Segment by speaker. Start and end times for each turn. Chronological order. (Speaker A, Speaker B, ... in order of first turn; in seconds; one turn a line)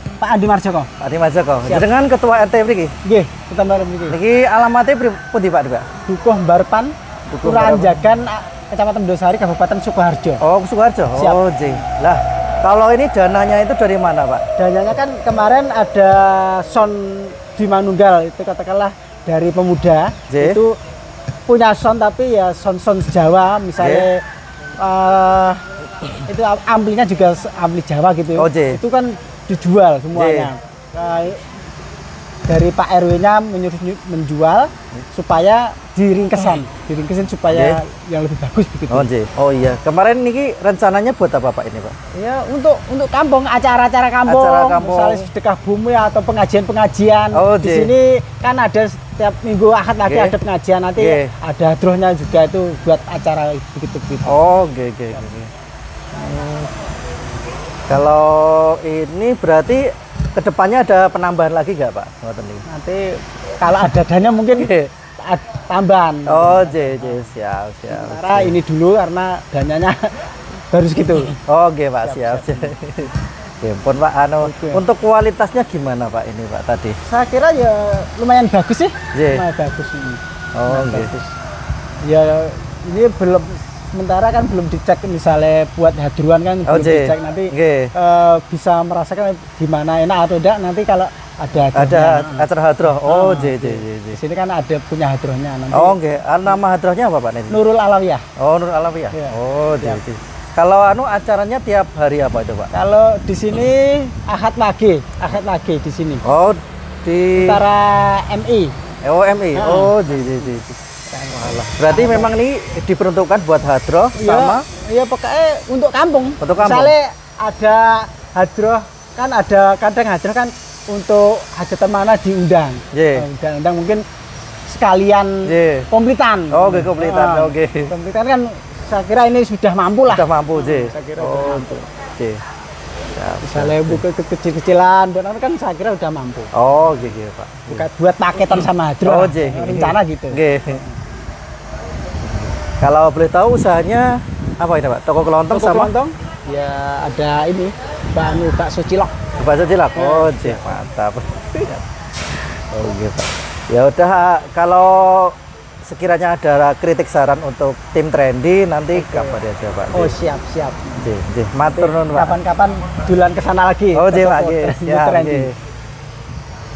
Speaker A: 0.2-0.9
Speaker B: 1.0-2.9
Speaker A: 3.0-4.2
Speaker B: 4.1-5.9
Speaker A: 6.0-10.4
Speaker B: 7.3-8.0
Speaker B: 10.4-14.5
Speaker A: 11.1-11.4
Speaker A: 14.5-20.8
Speaker B: 20.3-20.6
Speaker A: 21.4-24.2
Speaker B: 23.8-24.1
Speaker A: 24.8-25.6
Speaker A: 26.2-31.4
Speaker B: 28.4-28.8
Speaker B: 30.1-30.5
Speaker A: 32.5-39.1
Speaker B: 37.5-37.8
Speaker B: 38.9-41.9
Speaker A: 42.1-54.4
Speaker B: 44.2-45.3
Speaker B: 47.3-47.9
Speaker B: 50.0-50.4
Speaker B: 51.0-51.3
Speaker B: 54.2-55.5
Speaker A: 56.1-56.7
Speaker B: 57.9-62.6
Speaker A: 62.7-67.3
Speaker B: 64.5-64.9
Speaker B: 66.2-68.6
Speaker A: 67.9-71.3
Speaker B: 71.3-77.0
Speaker A: 72.0-72.7
Speaker A: 74.4-74.8
Speaker A: 77.0-81.3
Speaker B: 79.1-79.5
Speaker B: 80.5-81.1
Speaker A: 82.0-92.5
Speaker B: 86.6-87.9
Speaker B: 91.7-94.2
Speaker A: 93.0-96.5
Speaker B: 95.7-97.6
Speaker A: 97.5-98.2
Speaker B: 98.4-102.7
Speaker A: 99.1-100.0
Speaker A: 102.7-106.2
Speaker B: 106.2-107.6
Speaker A: 107.3-108.7
Speaker B: 109.0-110.8
Speaker A: 109.5-110.6
Speaker A: 111.1-112.3
Speaker B: 111.3-114.6
Speaker A: 114.2-124.0
Speaker B: 116.4-116.9
Speaker B: 122.9-123.2
Speaker A: 124.7-131.8
Speaker B: 125.4-125.9
Speaker B: 126.5-127.9
Speaker B: 130.1-132.4
Speaker B: 133.0-134.0
Speaker A: 133.4-136.5
Speaker B: 136.5-137.8
Speaker A: 137.7-140.9
Speaker B: 138.5-140.8
Speaker B: 142.8-145.9
Speaker A: 145.5-149.2
Speaker B: 149.4-160.1
Speaker A: 149.9-150.7
Speaker A: 158.9-159.4
Speaker A: 159.9-160.9
Speaker B: 161.0-162.4
Speaker A: 161.7-165.5
Speaker B: 163.9-165.5